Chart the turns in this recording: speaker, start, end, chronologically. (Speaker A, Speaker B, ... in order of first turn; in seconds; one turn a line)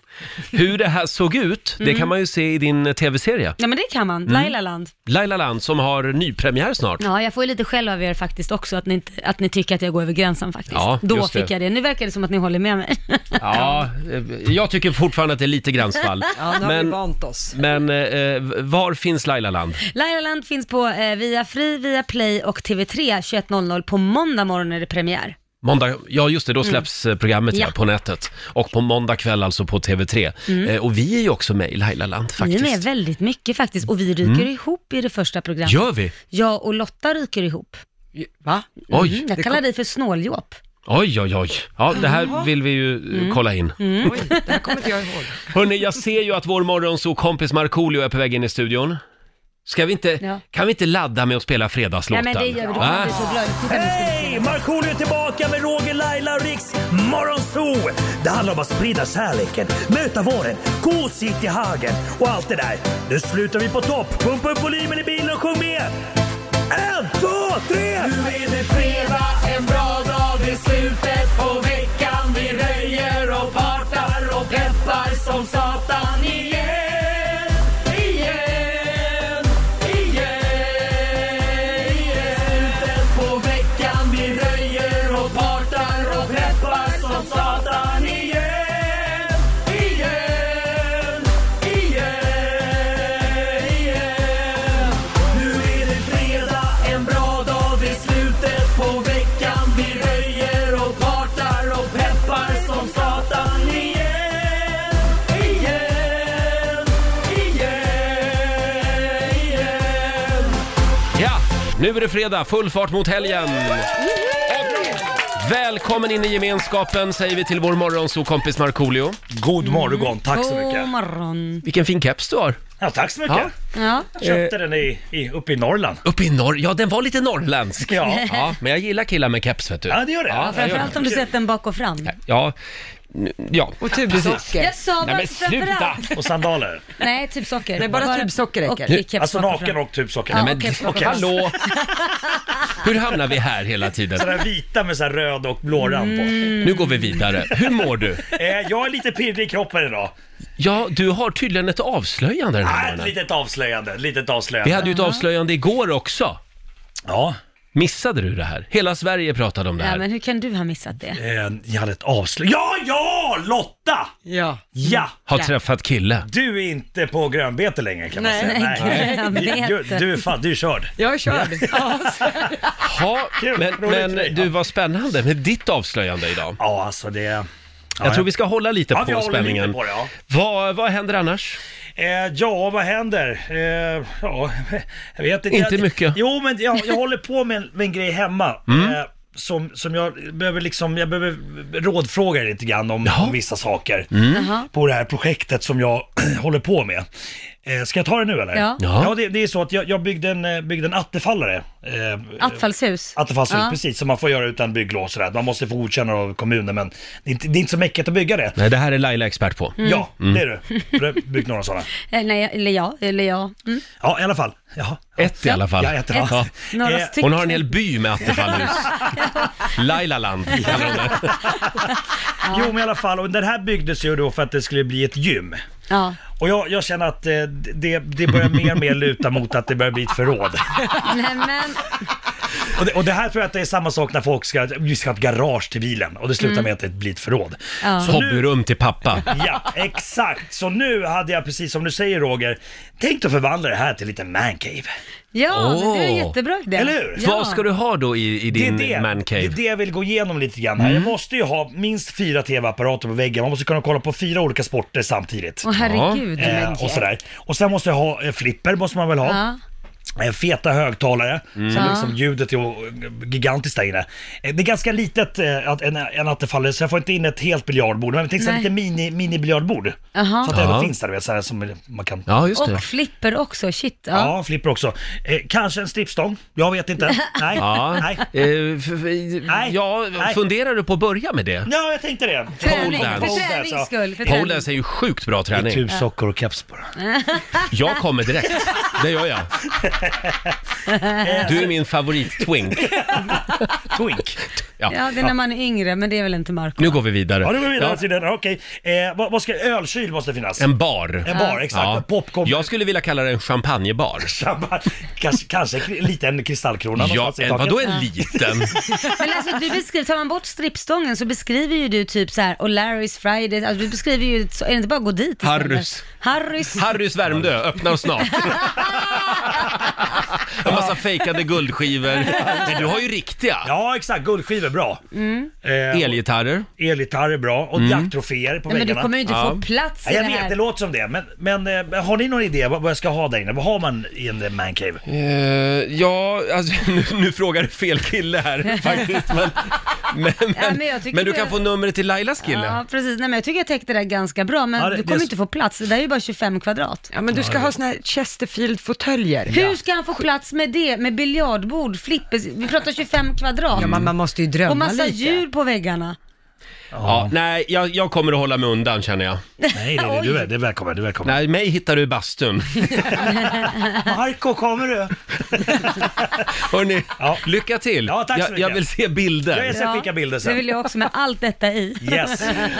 Speaker A: 0.5-3.6
Speaker B: 1.8-2.1
Speaker B: 3.6-4.9
Speaker A: 4.2-4.5
Speaker A: 5.0-7.0
Speaker B: 7.0-13.8
Speaker A: 10.7-11.5
Speaker A: 13.4-17.0
Speaker C: 16.4-17.5
Speaker A: 17.5-19.8
Speaker B: 19.9-25.4
Speaker A: 25.6-32.8
Speaker B: 32.4-37.8
Speaker A: 34.2-34.5
Speaker A: 35.6-36.1
Speaker C: 38.1-38.8
Speaker A: 38.9-39.2
Speaker B: 38.9-40.6
Speaker C: 39.4-39.6
Speaker A: 40.9-43.8
Speaker C: 41.9-42.5
Speaker B: 43.1-44.7
Speaker C: 44.0-45.5
Speaker A: 45.5-49.0
Speaker A: 49.6-53.1
Speaker B: 52.1-54.6
Speaker D: 53.7-65.9
Speaker D: 66.7-68.1
Speaker E: 68.0-110.5
Speaker A: 111.1-113.9
Speaker A: 114.5-119.2
Speaker D: 119.3-120.9
Speaker B: 119.6-121.6
Speaker A: 121.6-122.6
Speaker D: 122.8-123.5
Speaker B: 123.7-124.2
Speaker D: 124.2-126.0
Speaker A: 126.0-131.0
Speaker D: 127.8-128.3
Speaker B: 128.1-128.5
Speaker D: 129.9-131.3
Speaker B: 130.5-132.1
Speaker A: 132.1-132.5
Speaker A: 133.1-134.4
Speaker C: 133.8-134.7
Speaker B: 134.6-136.2
Speaker A: 135.0-136.1
Speaker D: 136.1-136.8
Speaker B: 137.0-139.8
Speaker C: 137.8-139.0
Speaker D: 139.2-141.3
Speaker B: 140.3-141.8
Speaker A: 140.3-141.6
Speaker A: 142.8-144.3
Speaker D: 144.2-146.6
Speaker B: 145.8-147.2
Speaker A: 146.6-148.3
Speaker D: 148.2-150.1
Speaker A: 150.6-153.1
Speaker D: 152.6-154.9
Speaker A: 154.6-156.4
Speaker B: 154.8-155.2
Speaker D: 157.1-157.4
Speaker A: 157.7-160.0
Speaker B: 159.8-161.2
Speaker D: 161.1-164.1
Speaker C: 164.2-165.5
Speaker D: 164.7-165.1
Speaker A: 165.3-166.2
Speaker D: 166.2-172.4
Speaker C: 168.1-169.5
Speaker B: 168.4-170.1
Speaker A: 168.8-169.1
Speaker C: 171.0-172.6
Speaker A: 172.8-176.6
Speaker D: 173.4-174.5
Speaker D: 176.6-177.5
Speaker D: 178.0-178.2
Speaker A: 178.0-179.8
Speaker D: 178.9-180.1
Speaker A: 180.3-181.6
Speaker D: 182.0-194.1
Speaker A: 185.5-186.2
Speaker A: 188.7-188.9
Speaker A: 193.0-193.3
Speaker A: 194.1-194.5
Speaker B: 194.3-194.7
Speaker D: 194.6-197.1
Speaker D: 197.6-202.6
Speaker B: 198.5-198.8
Speaker A: 198.8-199.1
Speaker B: 202.4-203.8
Speaker D: 203.2-208.6
Speaker A: 208.6-210.4
Speaker B: 209.8-210.1
Speaker D: 209.8-211.9
Speaker B: 212.1-213.8
Speaker D: 214.0-217.2
Speaker A: 215.2-216.5
Speaker B: 216.1-217.7
Speaker A: 217.2-219.1
Speaker B: 218.2-219.7
Speaker A: 219.7-221.4
Speaker D: 220.5-221.7
Speaker D: 222.4-225.6
Speaker B: 225.9-226.2
Speaker D: 226.4-230.9
Speaker B: 231.0-231.8
Speaker D: 232.7-238.4
Speaker B: 236.4-236.7
Speaker B: 237.8-238.1
Speaker A: 238.0-239.3
Speaker D: 239.3-244.9
Speaker B: 245.3-247.6
Speaker A: 245.5-246.3
Speaker D: 246.7-247.2
Speaker A: 247.2-249.5
Speaker D: 248.5-255.6
Speaker A: 250.8-251.1
Speaker B: 255.6-257.1
Speaker A: 255.7-256.2
Speaker D: 256.4-259.4
Speaker B: 259.2-259.6
Speaker D: 260.2-272.3
Speaker A: 261.6-262.0
Speaker B: 261.7-262.1
Speaker B: 268.4-268.7
Speaker B: 270.1-270.5
Speaker A: 270.5-270.9
Speaker A: 272.3-272.8
Speaker B: 272.6-274.3
Speaker D: 274.1-278.2
Speaker A: 277.6-281.7
Speaker D: 279.5-280.4
Speaker D: 281.6-284.4
Speaker A: 282.6-283.5
Speaker B: 282.6-284.6
Speaker A: 284.2-285.8
Speaker D: 285.5-286.9
Speaker B: 287.0-287.7
Speaker A: 287.7-289.5
Speaker D: 289.8-290.5
Speaker D: 291.2-291.7
Speaker A: 291.4-293.1
Speaker D: 292.8-294.4
Speaker B: 294.9-297.0
Speaker A: 296.8-298.0
Speaker D: 297.4-300.7
Speaker A: 300.6-304.3
Speaker D: 301.2-302.7
Speaker B: 301.3-301.6
Speaker D: 304.2-308.1
Speaker A: 307.0-308.8
Speaker B: 309.0-316.9
Speaker A: 315.4-316.0
Speaker A: 316.7-323.7
Speaker B: 318.4-318.9
Speaker D: 320.6-320.9
Speaker D: 322.4-322.9
Speaker D: 323.6-325.0
Speaker B: 325.1-325.5
Speaker D: 325.6-326.2
Speaker A: 325.9-326.7
Speaker D: 326.8-329.1
Speaker A: 327.8-328.1
Speaker B: 328.7-330.6
Speaker A: 329.3-329.6
Speaker D: 330.0-335.0
Speaker A: 335.1-342.8
Speaker B: 340.6-341.5
Speaker B: 342.4-347.0
Speaker D: 344.8-345.3
Speaker C: 347.1-349.8
Speaker D: 347.3-347.7
Speaker B: 349.5-353.9
Speaker C: 353.7-355.4
Speaker A: 353.8-354.1
Speaker B: 354.7-356.1
Speaker D: 356.9-357.3
Speaker A: 357.0-359.4
Speaker B: 359.6-360.4
Speaker D: 359.7-361.3
Speaker A: 361.2-363.1
Speaker D: 363.9-366.3
Speaker A: 366.5-369.8
Speaker D: 368.1-368.8
Speaker D: 369.5-370.6
Speaker B: 369.7-372.7
Speaker D: 372.0-372.7